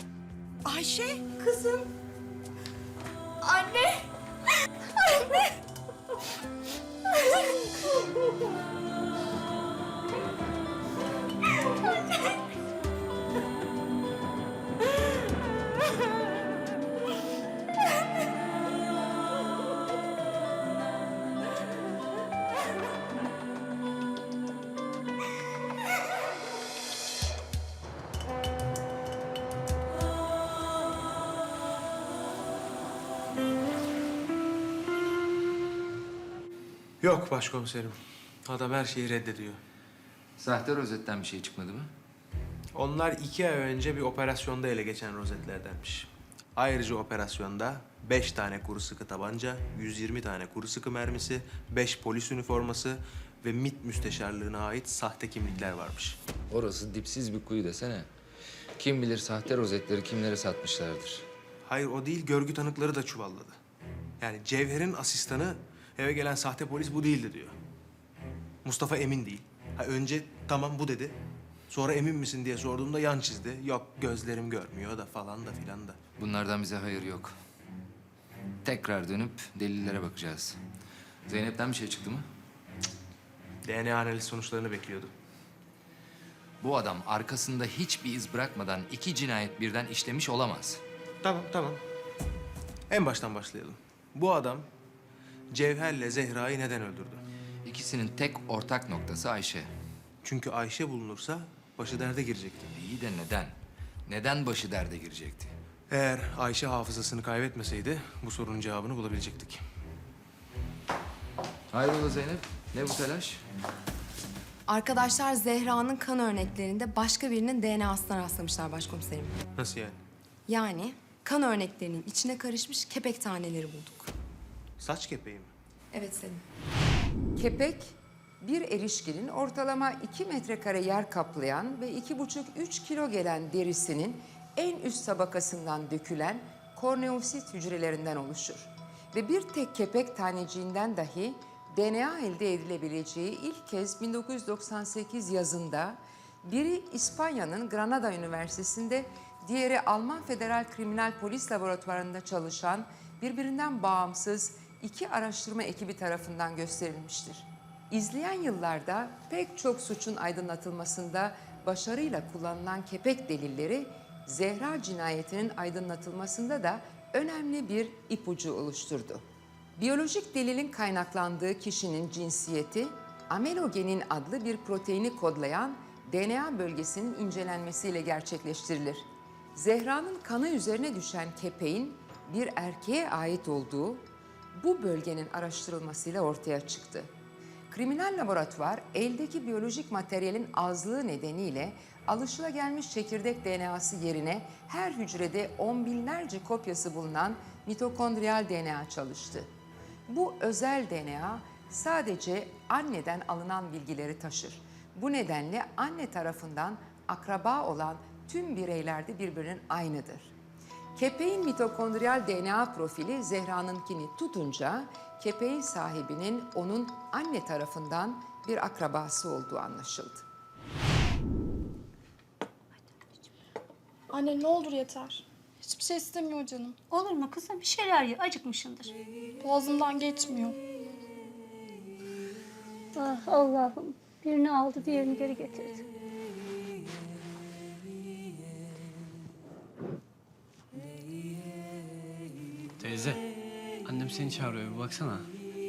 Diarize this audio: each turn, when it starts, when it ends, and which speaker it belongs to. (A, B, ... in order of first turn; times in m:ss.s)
0:37.0-0:39.6 A
0:40.4-0:41.9 B
0:42.8-0:56.2 A
0:56.5-0:58.1 B
0:58.8-1:01.3 B
1:01.7-1:03.6 A
1:04.2-1:07.6 A
1:08.6-1:11.2 A
1:11.7-1:16.0 A
1:16.2-1:17.3 B
1:18.6-1:20.6 B
1:21.3-1:22.2 B
1:23.6-1:25.1 A
1:26.6-1:30.8 B
1:31.2-1:31.8 A
1:32.9-1:34.7 A
1:35.5-1:37.2 A
1:37.6-1:39.7 B
1:40.2-1:42.7 A
1:42.7-1:43.5 B
1:44.1-1:45.5 B
1:45.9-1:49.6 A
1:51.7-1:53.4 B
1:54.7-1:59.4 C
1:59.6-2:00.0 A
2:00.5-2:04.1 C
2:04.8-2:05.5 A
2:05.9-2:06.3 C
2:07.4-2:49.2 D
2:49.8-2:59.0 D
2:59.6-3:07.1 D
3:07.7-3:19.5 D
3:20.1-3:30.3 D
3:31.0-3:40.2 D
3:44.1-3:46.8 E
3:46.9-3:48.9 F
3:49.4-3:50.6 E
3:53.0-3:55.8 F
4:02.8-4:03.2 G
4:03.8-4:05.3 G